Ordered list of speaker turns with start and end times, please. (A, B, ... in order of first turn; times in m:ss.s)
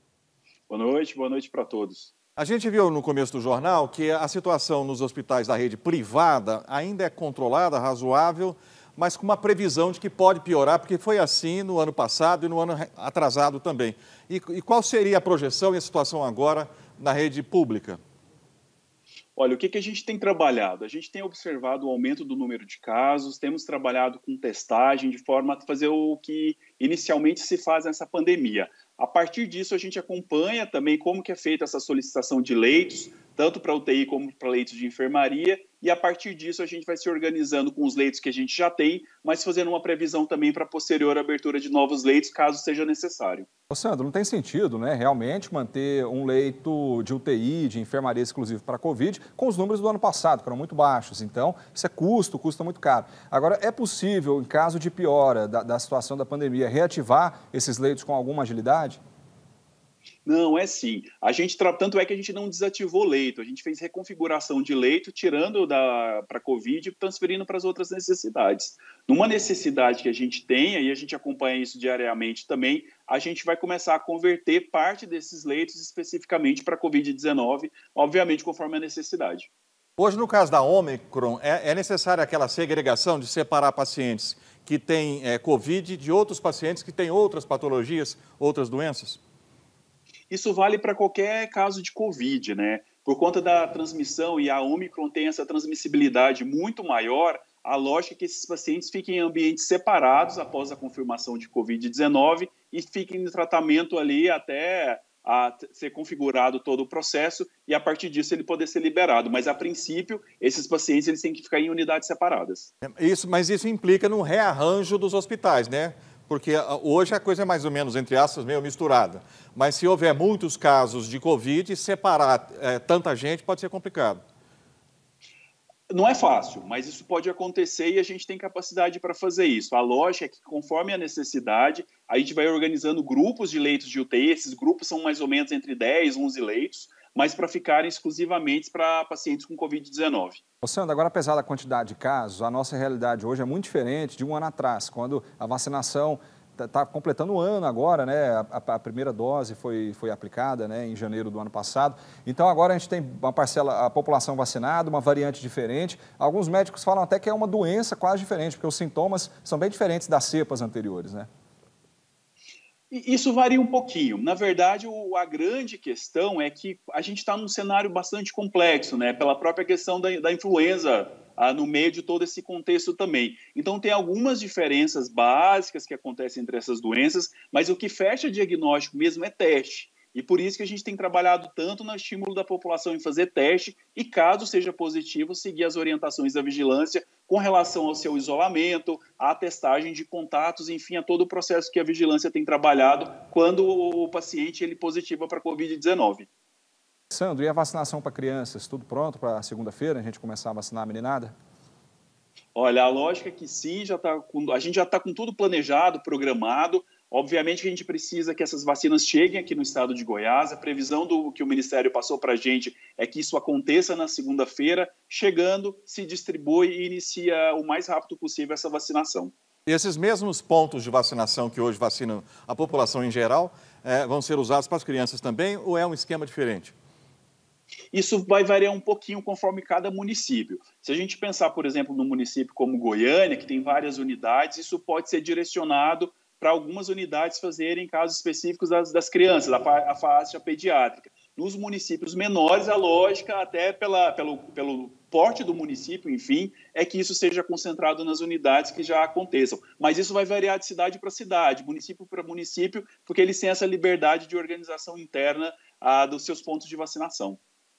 0:00.7-0:02.1 A
0:02.4-0:18.0 B
0:19.4-0:43.5 A
0:43.7-0:59.0 C
1:00.2-1:19.5 A
1:20.0-1:29.2 B
1:30.3-1:52.7 A
1:52.8-2:04.2 B
2:05.9-2:20.4 A
2:20.6-2:41.3 C
2:42.9-3:16.3 A
3:17.1-3:21.3 C
3:22.5-3:39.3 A
3:39.6-3:46.7 B
3:47.9-4:17.4 A